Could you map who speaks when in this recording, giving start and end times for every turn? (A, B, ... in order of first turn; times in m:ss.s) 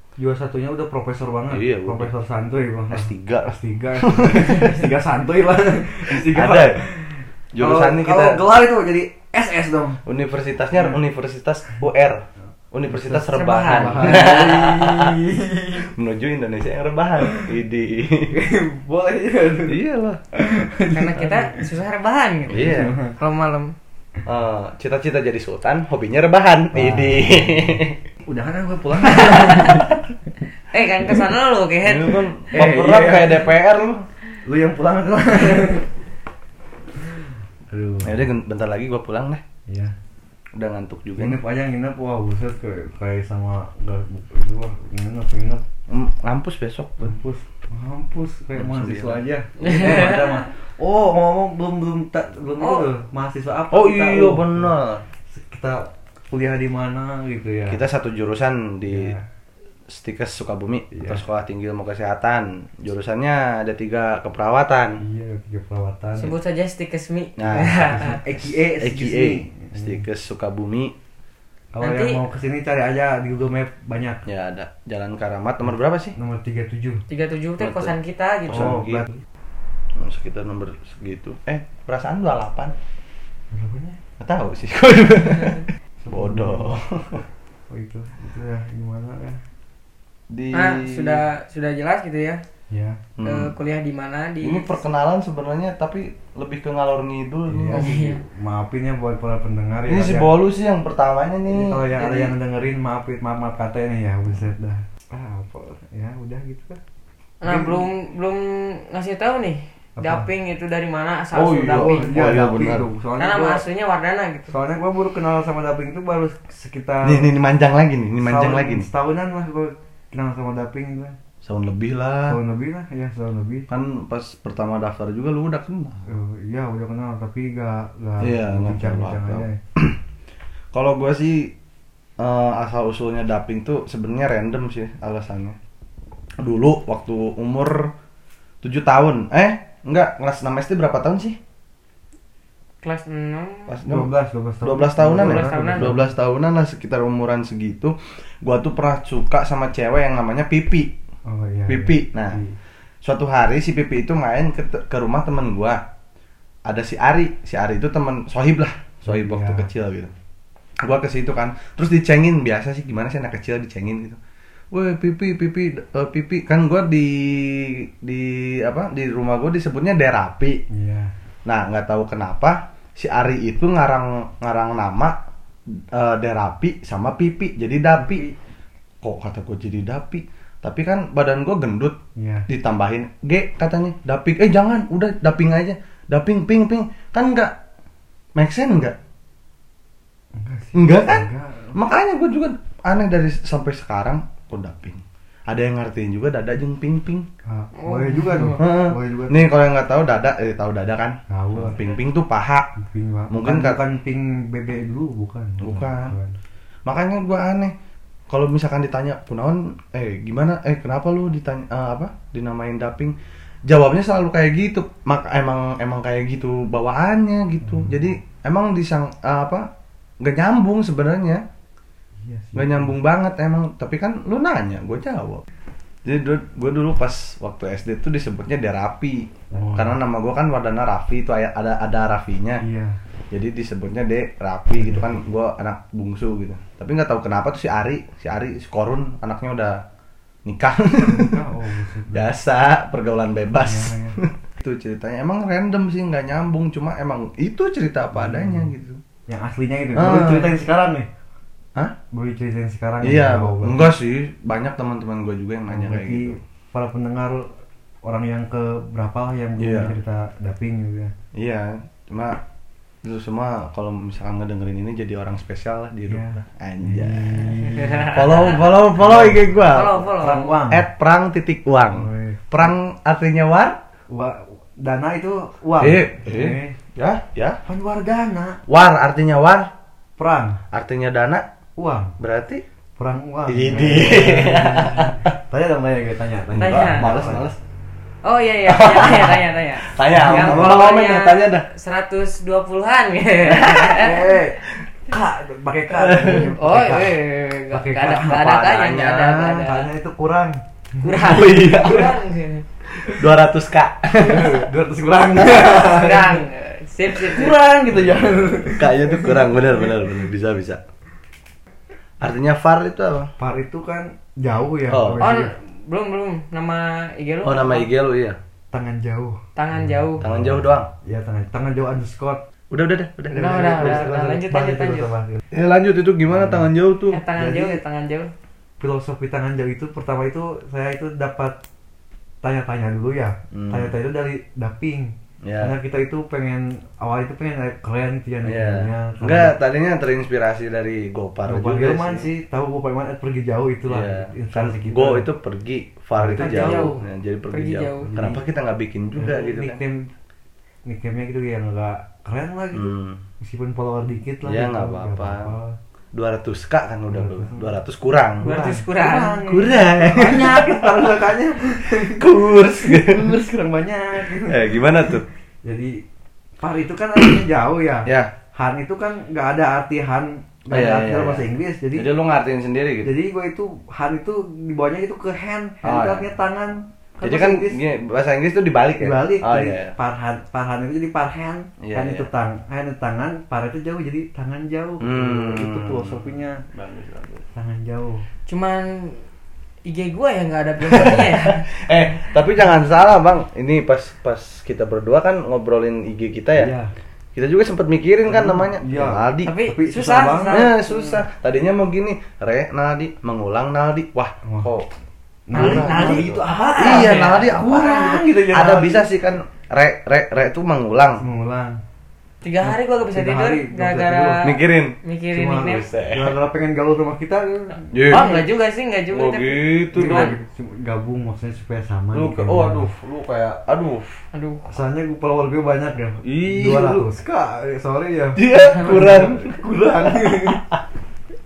0:00.2-0:10.0 A
0:01.5-0:02.1 B
0:02.9-0:04.8 B
0:06.1-0:06.8 B
0:07.5-0:08.4 B
0:10.0-0:15.2 B
0:12.9-0:15.9 A
0:13.3-0:14.6 C
0:15.8-0:18.4 B
0:18.3-0:19.8 A
0:19.7-0:20.2 B
0:20.3-0:21.7 A
0:20.9-0:23.7 C
0:22.5-0:23.0 B
0:22.6-0:23.1 A
0:24.2-0:28.0 B
0:26.7-0:30.0 A
0:29.0-0:29.8 C
0:30.7-0:32.2 C
0:31.8-0:34.0 B
0:32.5-0:33.5 A
0:34.4-0:35.9 A
0:37.7-0:38.2 A
0:38.0-0:39.4 B
0:39.7-0:39.9 A
0:40.5-0:41.4 B
0:41.2-0:45.6 A
0:45.9-0:47.1 B
0:47.0-0:54.7 A
0:48.6-0:49.2 B
0:53.7-0:55.0 B
0:55.3-0:57.8 A
0:57.7-0:59.2 B
0:58.9-0:59.2 A
0:59.9-1:05.0 B
1:00.9-1:01.2 A
1:05.0-1:06.3 A
1:06.2-1:08.2 C
1:07.4-1:10.9 B
1:07.9-1:10.0 A
1:11.7-1:14.2 A
1:11.8-1:12.2 C
1:14.2-1:16.2 B
1:16.2-1:17.0 A
1:17.1-1:18.8 C
1:17.6-1:17.9 B
1:18.5-1:19.0 B
1:18.5-1:19.2 A
1:19.9-1:22.7 B
1:23.5-1:24.0 A
1:24.2-1:27.2 B
1:26.0-1:26.8 A
1:27.7-1:29.4 A
1:30.3-1:31.2 B
1:30.5-1:32.4 C
1:32.7-1:33.0 A
1:33.2-1:33.5 B
1:33.2-1:34.8 C
1:34.4-1:37.9 B
1:37.5-1:40.3 A
1:37.7-1:38.2 C
1:39.9-1:42.1 B
1:41.5-1:46.8 A
1:47.4-1:52.2 C
1:47.4-1:47.9 A
1:50.0-1:50.2 A
1:51.3-1:52.9 B
1:51.7-1:53.6 A
1:53.2-1:54.5 C
1:54.5-1:57.3 A
1:57.0-1:58.9 B
1:58.2-2:01.2 A
2:01.4-2:02.4 B
2:02.3-2:03.7 A
2:03.7-2:06.0 B
2:06.1-2:09.6 A
2:08.2-2:10.0 B
2:10.7-2:11.5 B
2:12.2-2:15.6 B
2:16.4-2:17.9 B
2:18.6-2:21.4 B
2:22.8-2:23.8 C
2:23.7-2:24.1 B
2:23.8-2:26.1 A
2:24.6-2:30.9 B
2:25.1-2:25.9 C
2:31.2-2:32.6 A
2:31.7-2:32.4 B
2:33.0-2:35.8 B
2:36.6-2:40.1 B
2:39.0-2:39.7 A
2:40.8-2:44.2 B
2:44.7-2:50.6 B
2:50.7-2:51.1 A
2:51.4-2:55.2 B
2:55.7-2:58.2 B
2:57.9-2:58.3 A
2:59.0-3:02.0 B
3:02.2-3:02.5 A
3:02.5-3:07.5 B
3:08.3-3:09.0 B
3:10.3-3:11.8 A
3:10.7-3:17.3 B
3:17.4-3:19.5 A
3:17.8-3:18.6 C
3:18.6-3:22.7 B
3:21.3-3:21.8 A
3:22.8-3:26.4 A
3:23.3-3:23.8 B
3:25.6-3:26.1 B
3:26.8-3:27.7 B
3:28.3-3:33.1 B
3:33.6-3:39.7 B
3:37.6-3:38.0 A
3:40.2-3:41.4 B
3:42.2-3:42.9 A
3:42.5-3:45.4 B
3:46.0-3:52.6 B
3:49.5-3:50.0 A
3:52.6-3:53.0 A
3:53.3-3:59.8 B
3:54.8-3:55.2 A
4:00.4-4:01.4 B
4:01.0-4:02.3 A
4:02.1-4:09.0 B
4:03.6-4:04.2 A
4:08.1-4:08.7 A
4:09.3-4:11.1 A
4:10.0-4:10.6 B
4:12.1-4:13.9 A
4:13.0-4:16.4 B
4:15.7-4:17.5 A
4:18.0-4:21.1 A
4:19.6-4:19.9 B
4:21.3-4:22.4 B
4:23.0-4:33.8 B
4:26.1-4:30.9 A
4:27.9-4:28.5 C
4:29.7-4:30.5 C
4:31.9-4:32.6 A
4:34.1-4:36.8 A
4:35.8-4:37.6 B
4:37.6-4:38.6 A
4:38.7-4:39.7 B
4:40.2-4:40.6 A
4:40.7-4:41.5 B
4:41.8-4:42.1 A
4:42.2-4:42.6 B
4:43.0-4:47.4 A
4:43.5-4:45.3 B
4:46.5-4:47.6 B
4:46.6-4:47.1 C
4:48.2-4:54.3 C
4:48.6-4:51.6 B
4:50.1-4:50.8 A
4:53.4-4:54.1 B
4:54.0-4:57.2 A
4:55.9-4:56.5 B
4:56.2-4:59.9 C
4:57.7-4:58.6 A
4:58.2-4:59.6 B
4:59.6-5:02.0 A
5:01.0-5:02.6 C
5:01.2-5:02.2 B
5:03.0-5:04.7 B
5:04.2-5:06.4 A
5:05.4-5:06.1 B
5:05.7-5:07.6 C
5:07.1-5:09.4 A
5:08.7-5:10.8 B
5:12.2-5:13.3 B
5:13.4-5:15.5 A
5:14.9-5:15.2 B
5:15.2-5:17.9 C
5:17.4-5:18.4 B
5:18.7-5:22.4 A
5:19.6-5:20.2 C
5:20.2-5:20.9 B
5:22.7-5:24.3 B
5:23.3-5:25.1 C
5:23.4-5:25.4 A
5:25.5-5:27.2 B
5:26.3-5:26.7 A
5:27.1-5:28.3 C
5:27.3-5:27.8 A
5:28.8-5:31.6 A
5:32.4-5:39.5 A
5:33.5-5:33.9 B
5:35.4-5:35.7 B
5:38.4-5:42.3 B
5:41.5-5:45.3 A
5:43.9-5:49.8 B
5:46.1-5:47.0 A
5:46.4-5:48.1 C
5:48.0-5:48.4 A
5:49.2-5:50.1 A
5:50.8-5:55.8 A
5:52.7-5:53.2 B
5:54.4-5:55.5 B
5:56.1-5:58.8 B
5:57.1-5:57.7 A
5:58.4-5:59.5 C
5:58.5-6:04.8 A
5:59.4-6:03.3 B
6:04.3-6:05.2 B
6:05.6-6:06.0 A
6:06.6-6:12.1 A
6:10.7-6:13.1 B
6:13.0-6:17.8 A
6:15.8-6:16.3 B
6:17.2-6:19.9 B
6:19.0-6:26.6 A
6:21.8-6:22.3 B
6:25.0-6:27.4 B
6:27.5-6:28.2 A
6:28.5-6:29.2 C
6:29.8-6:31.7 C
6:30.8-6:36.7 B
6:36.5-6:36.9 A
6:37.3-6:39.5 B
6:38.3-6:40.7 A
6:39.4-6:41.2 C
6:40.5-6:44.9 B
6:44.4-6:44.7 A
6:45.5-6:49.0 A
6:45.5-6:51.2 B
6:45.5-6:48.1 C
6:51.2-6:51.8 A
6:52.4-6:55.9 C
6:52.6-6:54.4 A
6:54.4-6:54.9 B
6:55.3-6:58.3 A
6:55.7-6:56.4 B
6:57.9-6:58.4 B
6:58.0-7:00.3 C
6:59.1-7:00.3 B
6:59.9-7:02.9 A
7:02.1-7:04.2 B
7:04.3-7:04.6 C
7:04.7-7:10.6 A
7:06.2-7:07.0 B
7:08.3-7:10.8 B
7:08.7-7:09.0 C